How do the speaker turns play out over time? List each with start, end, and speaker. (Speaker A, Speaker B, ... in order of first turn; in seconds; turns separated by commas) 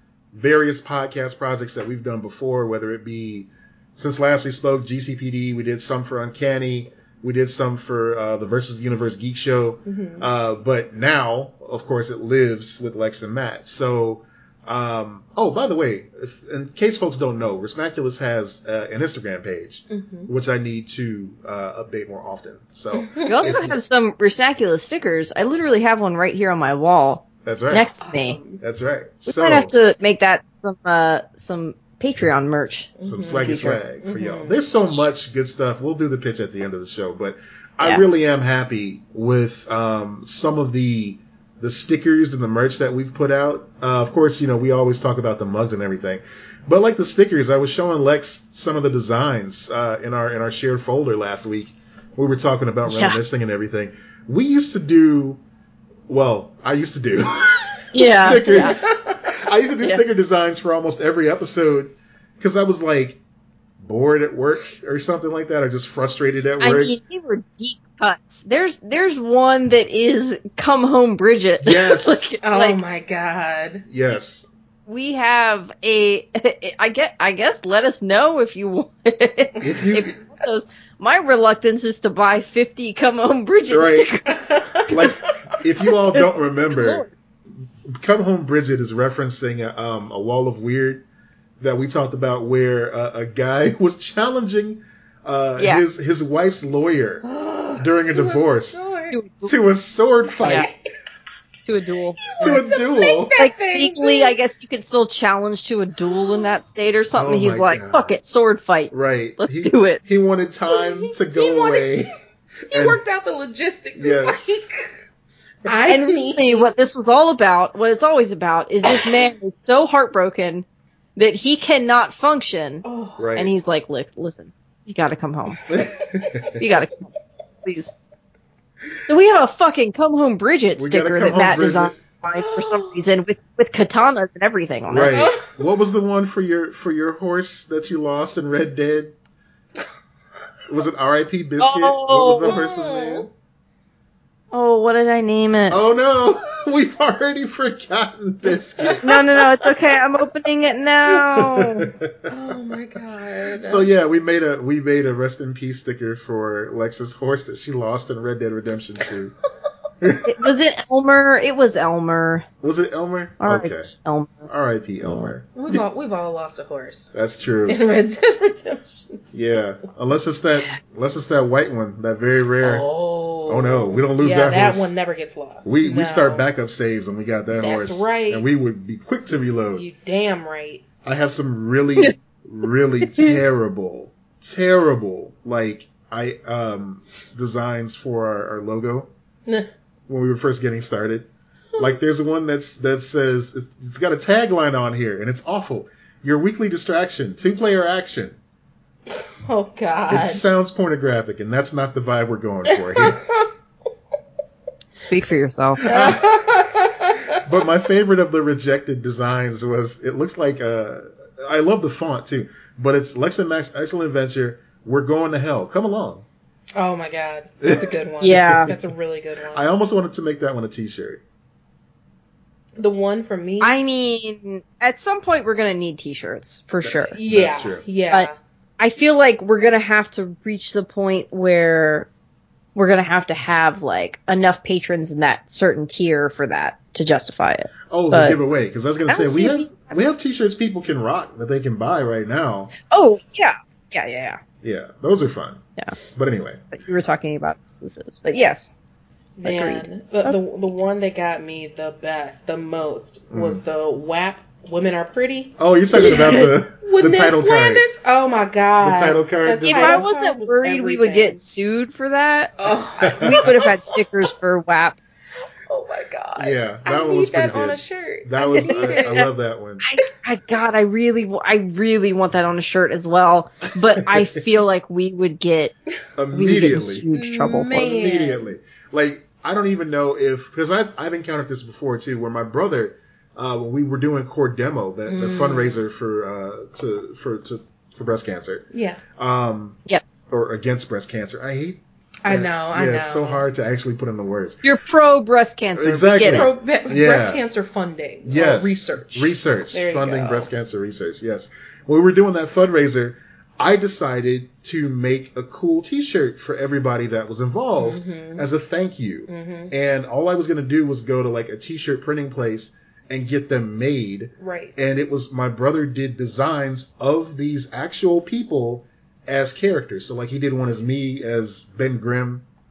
Speaker A: 0.3-23.8, Speaker B: 9.9-10.3, Speaker B: 19.9-20.3, Speaker B: 22.9-23.5, Speaker C: 23.3-28.4, Speaker A: 27.4-27.9, Speaker B: 28.0-28.6, Speaker A: 28.6-29.7, Speaker C: 29.3-33.8, Speaker B: 33.0-34.6, Speaker A: 33.0-55.4, Speaker C: 52.9-53.2, Speaker A: 56.1-63.2, Speaker C: 57.9-58.8, Speaker B: 58.5-59.0, Speaker A: 63.8-66.9, Speaker C: 66.6-72.8, Speaker A: 71.6-72.3, Speaker B: 72.4-73.8, Speaker A: 73.9-74.5, Speaker C: 74.9-85.2, Speaker A: 79.6-80.2, Speaker A: 83.7-84.1, Speaker B: 84.5-85.1, Speaker A: 84.9-87.1, Speaker C: 86.1-87.1, Speaker A: 87.9-91.0, Speaker A: 91.6-97.2, Speaker C: 95.6-95.8, Speaker B: 97.2-99.2, Speaker A: 97.8-98.8, Speaker C: 99.1-99.5, Speaker A: 99.4-100.7, Speaker B: 100.4-100.8, Speaker C: 100.4-100.7, Speaker C: 101.7-102.6, Speaker B: 102.3-104.3, Speaker A: 102.4-103.3, Speaker C: 103.4-110.0, Speaker B: 106.1-106.5, Speaker A: 107.2-108.1, Speaker A: 108.9-112.1, Speaker B: 110.7-112.1, Speaker B: 112.7-115.0, Speaker A: 112.7-113.0, Speaker A: 114.0-114.5, Speaker B: 115.6-116.7, Speaker C: 115.9-120.7, Speaker C: 121.2-122.8, Speaker B: 122.8-123.3, Speaker A: 123.2-123.5, Speaker C: 123.4-125.6, Speaker A: 125.7-126.6, Speaker C: 126.6-127.1, Speaker C: 127.6-127.9, Speaker C: 129.1-135.2, Speaker A: 130.8-131.9, Speaker B: 132.4-133.0, Speaker A: 134.9-139.2, Speaker B: 135.1-135.5, Speaker A: 140.7-143.3, Speaker C: 141.6-142.6, Speaker B: 142.4-143.3, Speaker C: 144.5-145.9, Speaker A: 145.7-149.0, Speaker B: 148.5-149.2, Speaker C: 149.0-151.9, Speaker A: 151.1-152.8, Speaker B: 152.3-153.9, Speaker A: 153.6-159.3, Speaker A: 160.0-160.3, Speaker C: 160.2-162.5, Speaker A: 162.6-163.9, Speaker C: 163.4-164.5, Speaker A: 164.5-165.8, Speaker C: 165.0-165.3, Speaker B: 165.6-167.1, Speaker A: 167.1-167.8, Speaker B: 167.7-169.3, Speaker A: 169.3-172.9, Speaker B: 172.6-176.5, Speaker A: 173.5-174.9, Speaker A: 175.7-179.9, Speaker B: 177.6-178.5, Speaker B: 179.8-180.9, Speaker A: 181.0-189.1, Speaker A: 190.1-198.4, Speaker B: 199.4-200.4, Speaker A: 200.1-203.2, Speaker B: 202.7-203.5, Speaker C: 204.9-205.8, Speaker A: 205.8-206.3, Speaker B: 205.8-207.4, Speaker A: 207.4-216.2, Speaker B: 216.8-219.7, Speaker A: 217.6-218.9, Speaker C: 218.2-218.7, Speaker A: 219.5-221.2, Speaker B: 222.8-223.8, Speaker C: 223.6-227.2, Speaker A: 226.8-227.8, Speaker B: 227.2-228.3, Speaker C: 228.1-232.1, Speaker C: 232.8-238.4, Speaker A: 237.9-242.7, Speaker C: 239.1-239.9, Speaker C: 242.9-244.4, Speaker A: 244.6-245.6, Speaker A: 246.1-246.6, Speaker C: 246.7-248.7, Speaker B: 249.4-256.3, Speaker C: 249.4-250.4, Speaker A: 253.3-253.6, Speaker A: 255.6-257.9, Speaker C: 255.9-256.5, Speaker B: 256.8-261.4, Speaker A: 258.8-260.1, Speaker C: 259.7-262.6, Speaker B: 262.6-263.7, Speaker A: 263.0-263.5, Speaker C: 263.2-265.0, Speaker B: 265.7-269.2, Speaker A: 266.4-269.8, Speaker C: 268.6-269.3, Speaker C: 269.8-275.8, Speaker A: 274.0-274.2, Speaker A: 276.2-277.1, Speaker C: 276.3-277.8, Speaker B: 277.1-278.5, Speaker A: 277.7-294.6, Speaker B: 285.1-285.8, Speaker B: 288.7-289.0, Speaker B: 292.2-293.4, Speaker C: 294.6-296.5, Speaker A: 295.8-297.4, Speaker B: 296.2-300.5, Speaker A: 298.2-322.4, Speaker B: 307.8-308.4, Speaker B: 309.3-309.7, Speaker B: 314.4-314.8